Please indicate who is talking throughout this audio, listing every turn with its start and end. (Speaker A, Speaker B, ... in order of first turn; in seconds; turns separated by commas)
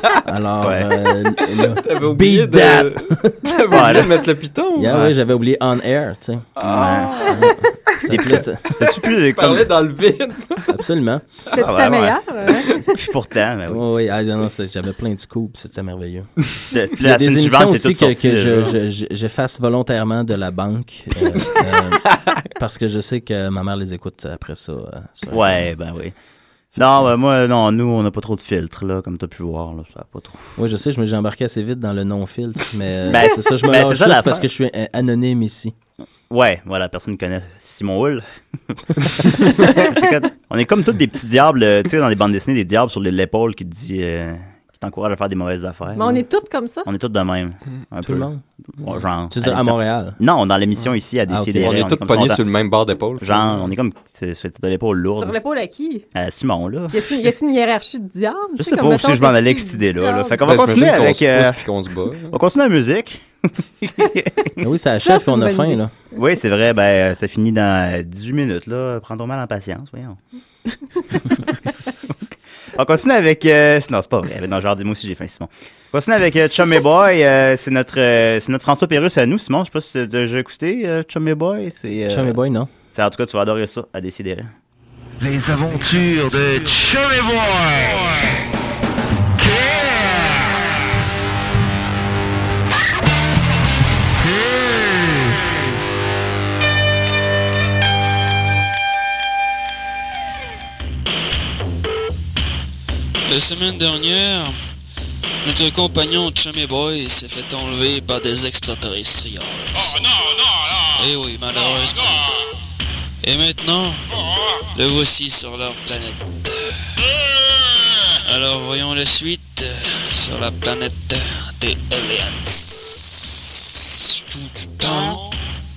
Speaker A: 0.2-3.5, Speaker B: 0.6-0.9, Speaker C: 1.8-5.0, Speaker B: 3.7-4.2, Speaker A: 4.8-6.5, Speaker B: 4.9-5.1, Speaker C: 6.6-7.5, Speaker B: 6.6-7.3, Speaker A: 7.2-8.7, Speaker B: 8.1-9.7, Speaker C: 8.8-10.7, Speaker A: 10.7-11.2, Speaker D: 11.5-13.0, Speaker B: 11.6-13.8, Speaker A: 13.7-16.3, Speaker B: 16.7-18.8, Speaker A: 17.0-25.7, Speaker B: 25.3-26.1, Speaker B: 26.8-30.5, Speaker A: 30.6-35.7, Speaker B: 33.1-34.5, Speaker B: 36.3-46.2, Speaker D: 46.0-46.9, Speaker B: 46.9-52.4, Speaker A: 48.0-48.4, Speaker A: 49.3-50.2, Speaker A: 51.3-51.9, Speaker C: 51.6-53.7, Speaker B: 53.2-55.4, Speaker D: 55.2-56.0, Speaker B: 56.1-57.2, Speaker D: 56.9-60.4, Speaker B: 58.6-61.7, Speaker C: 60.4-62.4, Speaker B: 62.3-63.2, Speaker B: 63.8-64.5, Speaker A: 64.6-65.9, Speaker D: 64.9-65.8, Speaker B: 66.2-70.2, Speaker B: 72.8-82.4, Speaker A: 82.1-82.7, Speaker B: 82.9-84.5, Speaker E: 85.2-88.1, Speaker E: 89.4-90.0, Speaker F: 103.2-104.5, Speaker F: 105.4-110.0, Speaker F: 111.0-112.3, Speaker F: 113.2-114.0, Speaker F: 114.7-116.7, Speaker F: 118.2-125.2